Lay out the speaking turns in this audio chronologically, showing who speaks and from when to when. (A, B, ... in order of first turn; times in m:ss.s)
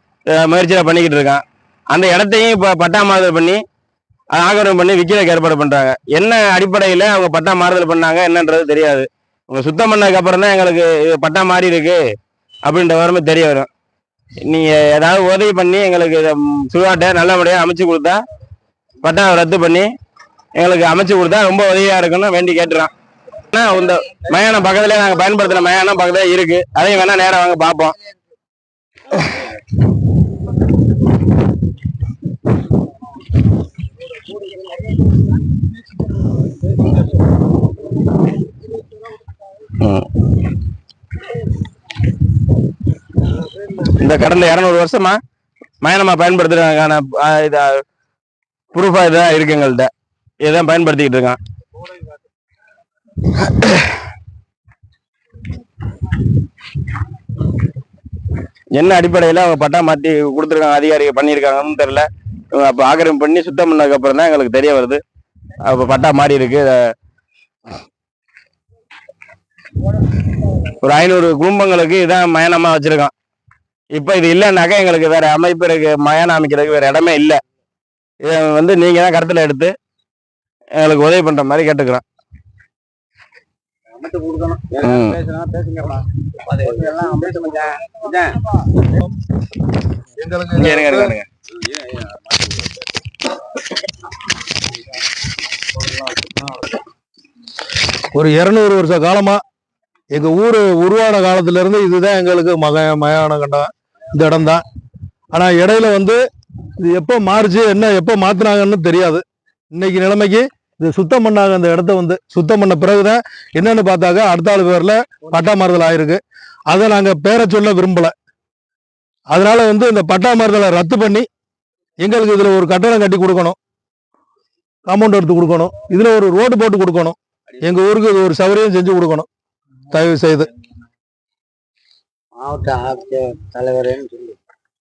0:00.3-0:03.6 A
0:04.3-0:12.0 A
0:12.6-0:13.7 A
0:14.4-0:18.2 A
0:19.0-0:19.9 A
0:20.6-0:22.9 A
0:23.5-0:28.0 A
0:39.7-0:40.2 A
0:43.7-0:45.2 A
0:45.8-0:47.8 A
0:48.7-0:49.9 A
0:50.4-0:51.4 A
0:53.3-0:54.0 A
0:58.7-1:05.0 A
1:05.6-1:06.8 A
1:10.6-1:13.1 A
1:13.9-1:17.4 A
1:18.2-1:19.7 A
1:20.8-1:22.0 A
1:23.9-1:28.6 B
1:24.8-1:25.2 A
1:30.2-1:31.1 C
1:30.5-1:31.3 A
1:31.6-1:32.7 B
1:38.1-1:39.4 C
1:40.1-1:44.6 C
1:45.3-1:46.2 C
1:46.8-1:49.2 C
1:49.7-1:56.2 C
1:56.7-1:58.1 C
1:59.3-2:01.2 C
2:02.0-2:03.6 C
2:04.9-2:09.3 C
2:09.9-2:10.5 C
2:12.4-2:14.4 B